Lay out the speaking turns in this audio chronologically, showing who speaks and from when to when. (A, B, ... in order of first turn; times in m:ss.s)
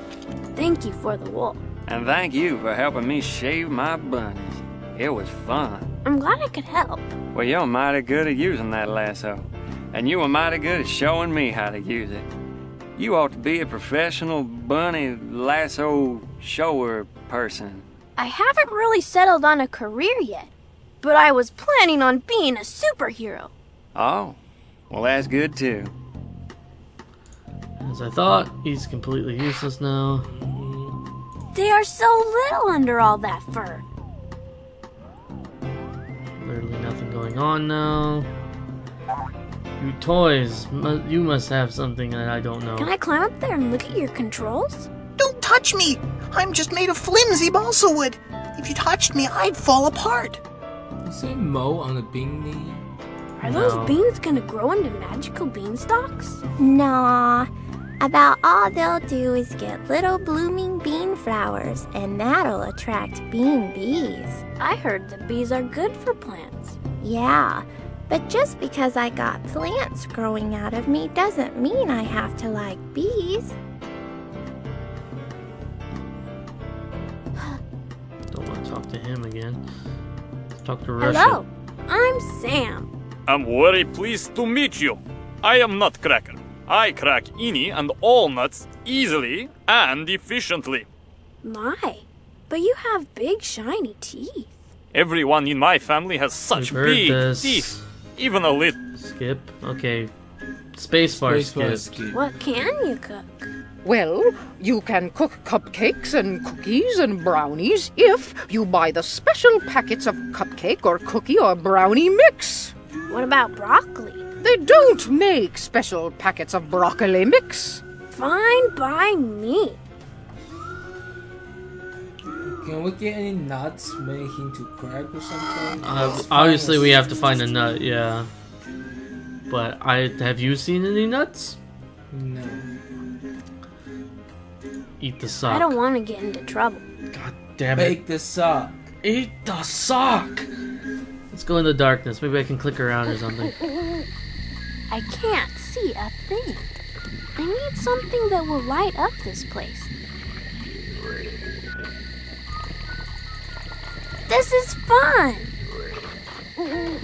0:00.6-0:01.6 A
0:01.9-0:05.9 B
0:06.0-0:07.1 A
0:07.3-0:12.3 B
0:13.0-0:17.9 B
0:18.2-0:20.5 A
0:21.0-0:23.5 A
0:24.0-0:24.4 B
0:24.9-0:25.9 B
0:27.8-0:30.3 C
0:30.2-0:31.0 D
0:31.5-0:33.8 A
0:36.4-0:38.3 C
0:39.8-0:42.9 C
0:42.8-0:44.9 A
0:45.2-0:50.4 E
0:51.0-0:52.8 D
0:53.4-0:56.4 A
0:53.4-0:54.0 C
0:56.6-1:04.4 F
1:04.6-1:06.8 A
1:07.0-1:13.6 F
1:18.3-1:19.6 C
1:20.6-1:21.4 C
1:21.0-1:22.9 A
1:23.3-1:30.9 G
1:31.4-1:34.5 A
1:34.9-1:38.8 G
1:36.5-1:37.8 C
1:39.0-1:40.1 C
1:40.8-1:42.0 C
1:41.1-1:42.2 D
1:42.1-1:43.5 A
1:43.8-1:52.7 H
1:53.1-1:54.2 A
1:54.4-1:57.8 H
1:58.1-1:59.8 A
2:02.4-2:07.1 D
2:05.8-2:08.3 C
2:09.5-2:11.6 C
2:12.1-2:12.7 D
2:15.0-2:15.8 C
2:15.5-2:16.8 A
2:17.1-2:18.0 C
2:17.8-2:18.8 D
2:19.0-2:20.5 C
2:21.3-2:23.5 C
2:24.9-2:26.7 A
2:27.4-2:29.9 A
2:34.3-2:35.5 A